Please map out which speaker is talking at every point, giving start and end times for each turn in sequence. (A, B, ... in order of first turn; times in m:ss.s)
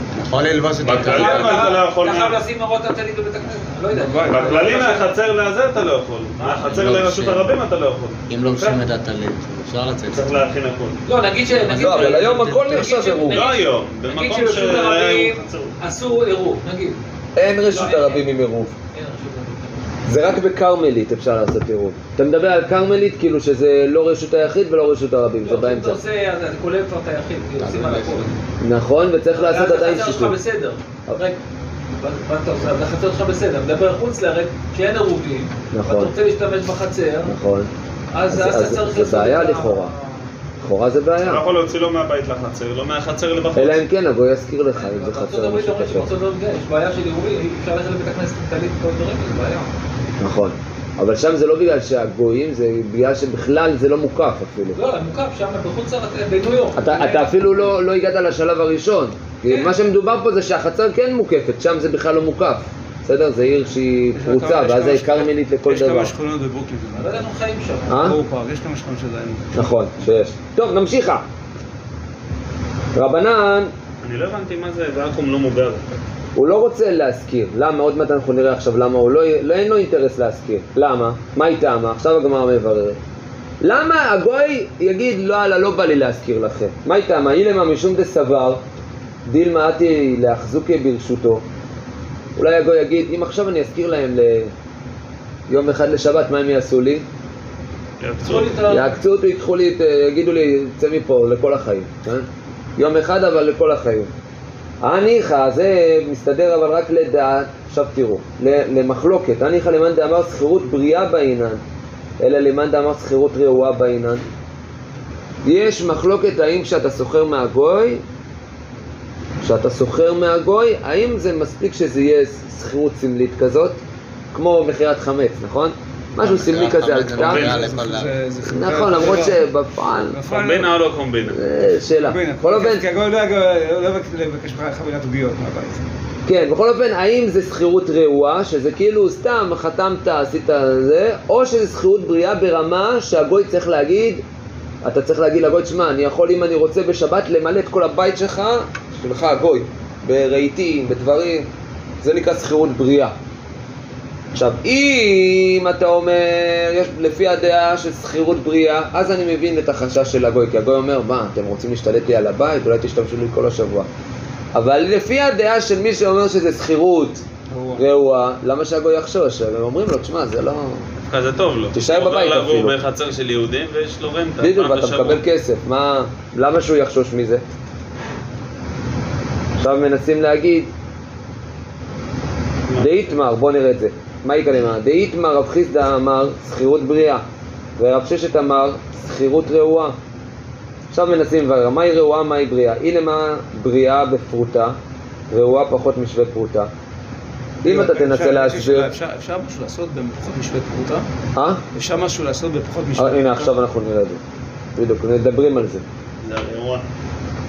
0:00.2-0:01.7 A
0:00.8-0:02.4 B
0:01.0-0:05.1 C
0:03.9-0:04.7 D
0:04.3-0:08.8 B
0:06.4-0:06.9 C
0:06.6-0:07.5 A
0:08.3-0:10.4 A
0:10.1-0:11.0 B
0:11.1-0:17.0 C
0:11.6-0:12.8 A
0:11.8-0:13.4 E
0:13.3-0:15.8 B
0:17.4-0:18.8 E
0:17.7-0:18.3 C
0:18.9-0:19.8 C
0:20.1-0:26.0 E
0:25.4-0:28.3 C
0:28.6-0:30.4 E
0:29.3-0:31.4 C
0:32.0-0:37.3 C
0:35.7-0:36.1 E
0:37.2-0:37.7 E
0:38.1-0:40.3 C
0:38.3-0:39.9 E
0:40.6-0:41.4 E
0:41.2-0:43.8 B
0:43.6-0:46.1 E
0:44.8-0:49.7 C
0:50.2-0:54.8 E
0:54.8-0:57.3 C
0:56.8-1:06.1 E
0:59.5-0:59.8 C
1:04.1-1:07.3 D
1:07.0-1:08.0 C
1:07.9-1:08.2 E
1:07.9-1:10.2 D
1:09.6-1:11.2 E
1:13.0-1:13.7 E
1:14.0-1:15.8 B
1:16.4-1:23.0 E
1:23.6-1:28.6 E
1:29.3-1:31.4 E
1:32.4-1:34.5 E
1:35.5-1:37.0 E
1:38.0-1:38.7 B
1:38.2-1:38.9 C
1:38.7-1:44.1 E
1:44.8-1:51.6 E
1:52.2-1:54.2 E
1:55.4-1:58.0 E
1:59.4-2:03.8 E
2:04.3-2:07.6 E
2:06.2-2:08.2 A
2:07.2-2:07.8 B
2:07.4-2:10.8 D
2:08.5-2:10.2 E
2:10.2-2:11.4 B
2:11.3-2:12.9 E
2:12.0-2:15.8 D
2:16.3-2:24.2 E
2:24.8-2:31.5 E
2:32.0-2:33.2 E
2:34.3-2:43.9 E
2:44.5-2:47.2 E
2:47.5-2:47.8 D
2:47.8-2:50.9 E
2:51.1-2:55.2 B
2:51.7-2:52.8 E
2:54.4-2:57.4 E
2:59.6-3:00.7 E
3:02.8-3:07.2 E
3:07.8-3:10.0 E
3:10.9-3:14.8 E
3:15.3-3:16.7 E
3:17.6-3:18.9 E
3:17.6-3:21.1 D
3:21.4-3:21.6 E
3:21.7-3:23.6 D
3:23.0-3:24.2 E
3:24.8-3:25.8 E
3:26.2-3:26.9 B